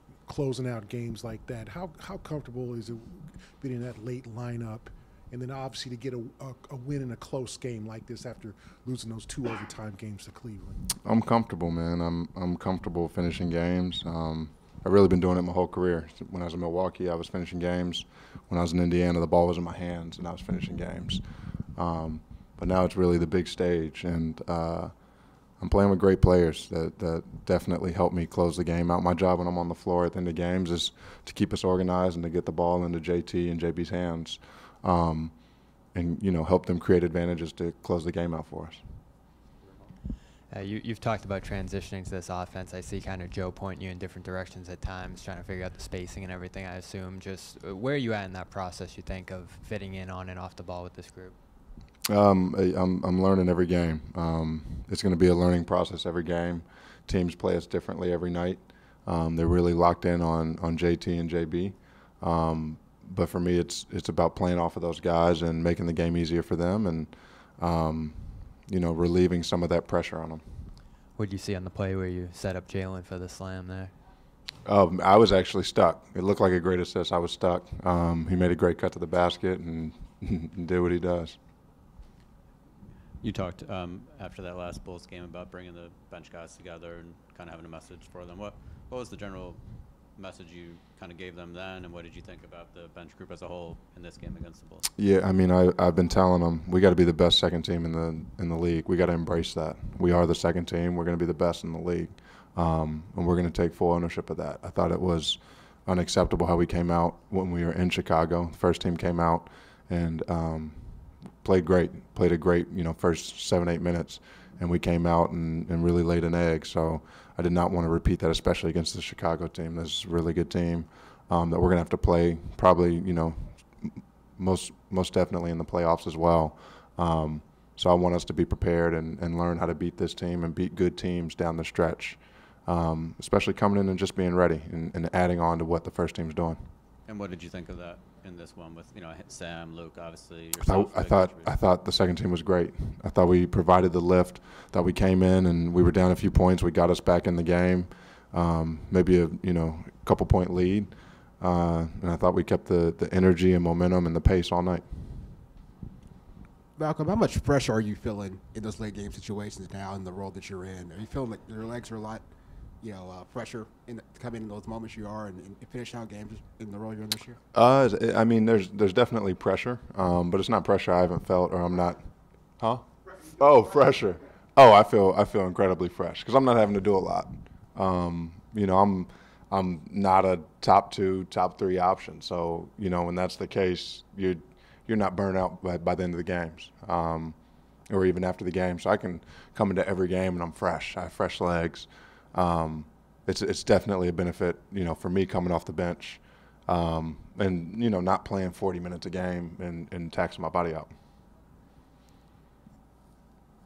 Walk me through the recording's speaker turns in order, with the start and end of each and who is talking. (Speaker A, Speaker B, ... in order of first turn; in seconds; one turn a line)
Speaker A: 0.2-10.8
Speaker B: 11.0-39.0
Speaker C: 40.5-51.4
Speaker B: 52.1-70.8
Speaker C: 71.1-73.9
Speaker B: 74.6-81.4
Speaker D: 83.2-94.9
Speaker B: 95.0-136.7
Speaker D: 137.0-141.5
Speaker B: 140.6-155.4
Speaker E: 156.8-162.2
Speaker E: 162.8-167.4
Speaker B: 167.5-201.0